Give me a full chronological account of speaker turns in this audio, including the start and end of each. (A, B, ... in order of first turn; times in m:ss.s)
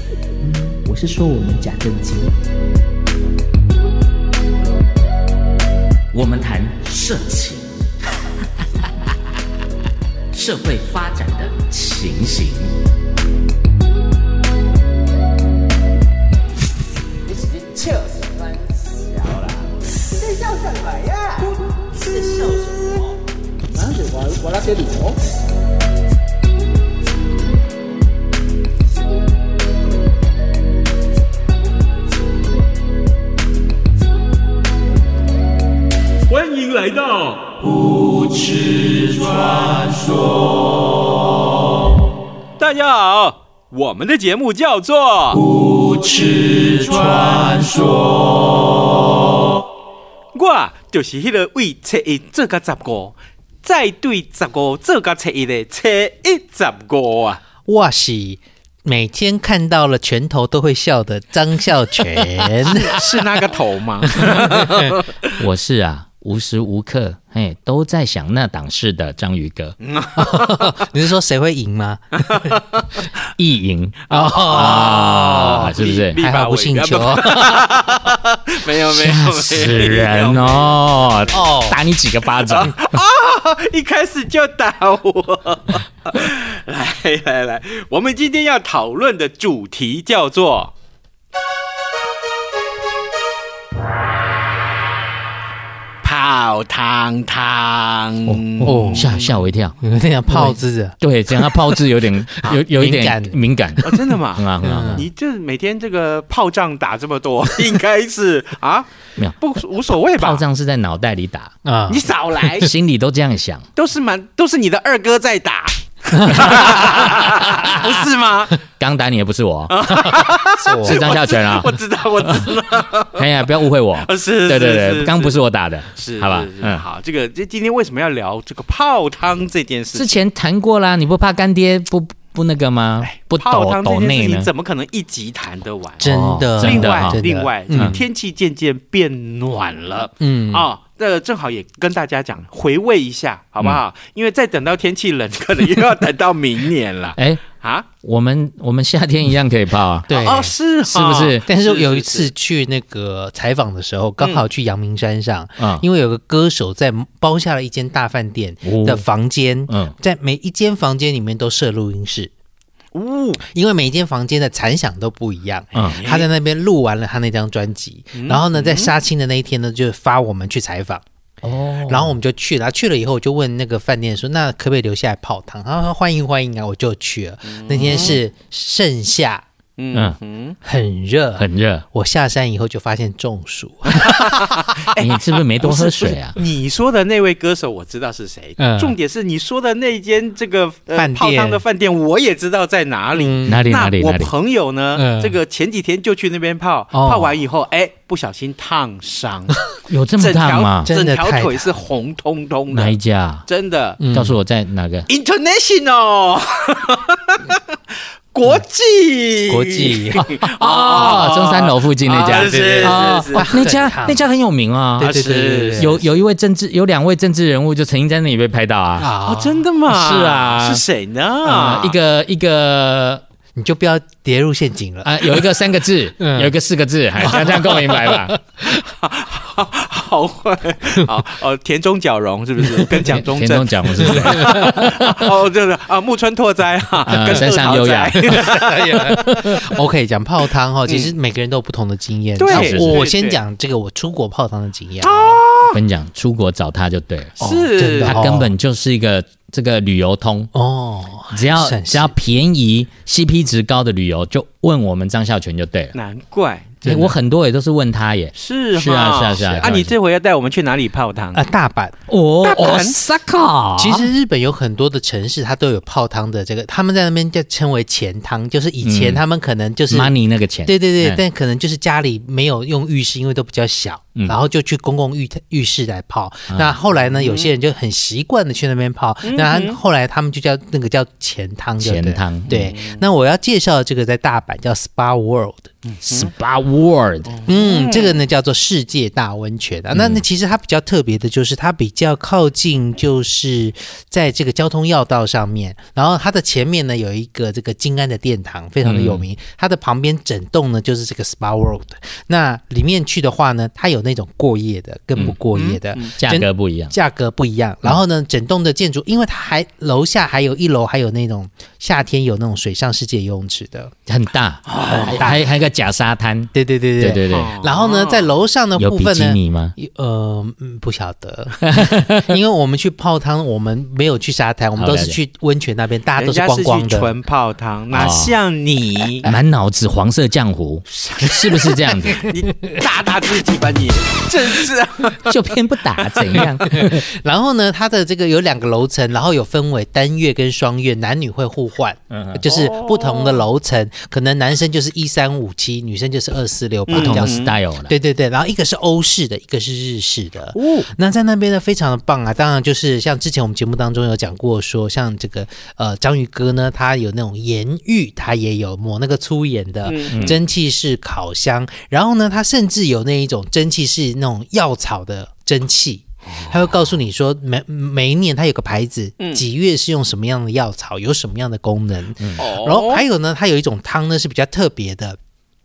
0:00.4-0:02.3 A
0:01.0-0:01.9 B
0:06.1-0:07.8 B
0:10.3-0:12.8 B
0:20.4-0:21.5 C
0:24.2-0:25.0 A
0:36.3-0:39.8 C
0:42.6-0:45.5 C
0:46.8-0:47.6 C
0:50.3-0:57.4 C
0:57.7-1:03.0 A
1:02.6-1:05.3 C
1:04.1-1:04.9 A
1:05.4-1:09.8 B
1:09.8-1:10.7 C
1:10.2-1:12.6 A
1:13.4-1:16.2 B
1:14.1-1:21.3 C
1:14.1-1:17.8 A
1:18.9-1:22.8 B
1:21.3-1:21.8 A
1:22.4-1:30.7 C
1:36.0-1:39.4 C
1:38.3-1:39.8 B
1:38.6-1:39.2 A
1:39.8-1:41.8 A
1:40.3-1:45.0 B
1:42.4-1:43.4 A
1:43.8-1:50.4 C
1:44.6-1:45.1 A
1:50.2-1:51.5 B
1:51.6-1:52.1 A
1:51.9-1:52.7 C
1:52.6-1:53.6 B
1:53.8-1:58.6 C
1:58.8-1:59.7 B
1:59.7-2:03.2 C
2:00.6-2:01.1 A
2:01.0-2:01.7 B
2:03.2-2:06.8 B
2:04.0-2:05.4 C
2:06.0-2:10.2 C
2:09.9-2:14.5 B
2:13.0-2:27.9 C
2:16.0-2:17.2 B
2:16.0-2:18.0 A
2:20.2-2:20.7 A
2:27.2-2:27.4 B
2:28.0-2:30.1 B
2:30.1-2:32.3 C
2:30.1-2:30.6 A
2:30.9-2:31.4 B
2:31.5-2:42.3 A
2:34.2-2:34.4 C
2:35.6-2:35.8 B
2:38.6-2:39.0 B
2:42.9-2:43.4 C
2:43.5-2:51.0 A
2:45.7-2:46.3 C
2:48.1-2:48.9 C
2:51.4-2:52.1 B
2:51.9-2:59.4 A
2:57.4-2:58.2 C
2:59.8-3:00.6 C
3:00.6-3:04.5 A
3:01.4-3:01.8 B
3:04.0-3:19.6 C
3:05.0-3:06.4 B
3:08.6-3:09.0 A
3:10.9-3:11.6 A
3:13.2-3:13.6 A
3:13.5-3:14.3 B
3:15.0-3:15.4 A
3:16.9-3:17.3 A
3:19.9-3:20.9 B
3:20.2-3:24.0 C
3:20.8-3:21.7 A
3:22.7-3:23.4 B
3:24.0-3:24.4 A
3:24.1-3:25.1 B
3:25.1-3:27.6 C
3:28.3-3:33.7 C
3:29.5-3:30.3 A
3:30.2-3:35.1 B
3:32.3-3:34.2 A
3:35.0-3:36.0 A
3:35.0-3:36.0 C
3:35.8-3:39.1 B
3:39.0-3:39.7 A
3:39.2-3:42.0 C
3:39.9-3:40.8 B
3:41.4-3:43.2 B
3:43.6-3:45.4 A
3:45.0-3:48.4 B
3:46.2-3:46.5 A
3:47.2-3:48.3 A
3:48.6-3:59.5 C
3:53.1-3:54.9 B
3:54.2-3:54.8 A
3:57.0-3:58.3 B
3:58.3-4:05.4 A
4:00.9-4:01.1 C
4:02.4-4:03.4 C
4:02.5-4:03.0 B
4:05.0-4:05.8 C
4:05.7-4:07.4 B
4:07.4-4:08.3 C
4:07.4-4:08.5 A
4:08.0-4:10.5 B
4:10.5-4:12.1 A
4:11.3-4:15.9 B
4:15.9-4:16.7 C
4:16.8-4:17.2 A
4:16.9-4:19.9 B
4:18.3-4:21.5 C
4:21.4-4:22.0 A
4:22.1-4:24.1 B
4:22.4-4:23.0 C
4:23.8-4:45.7 A
4:28.8-4:29.2 B
4:29.9-4:31.2 B
4:36.5-4:36.7 B
4:37.1-4:37.5 C
4:39.2-4:39.8 C
4:41.8-4:42.6 B
4:42.7-4:43.0 C
4:45.8-4:46.3 C
4:46.1-4:47.4 B
4:47.2-4:48.2 C
4:47.5-5:13.9 A
4:50.0-4:50.2 B
4:58.8-4:59.2 B
5:05.5-5:06.1 C
5:06.2-5:06.9 B
5:14.1-5:17.5 B
5:14.7-5:15.3 C
5:14.9-5:15.4 A
5:16.5-5:27.1 A
5:17.3-5:18.3 C
5:18.8-5:19.8 B
5:21.6-5:22.3 B
5:24.8-5:25.2 B
5:26.2-5:29.3 C
5:27.9-5:28.4 B
5:29.2-5:32.2 B
5:30.9-5:35.4 C
5:35.3-5:37.0 B
5:36.9-6:15.2 A
5:42.1-5:42.4 B
5:42.5-5:43.4 C
5:46.9-5:47.6 C
5:47.0-5:48.0 B
5:50.6-5:50.9 C
5:59.9-6:00.4 C
6:00.1-6:00.4 B
6:06.3-6:06.6 C
6:09.2-6:09.4 C
6:12.4-6:13.1 C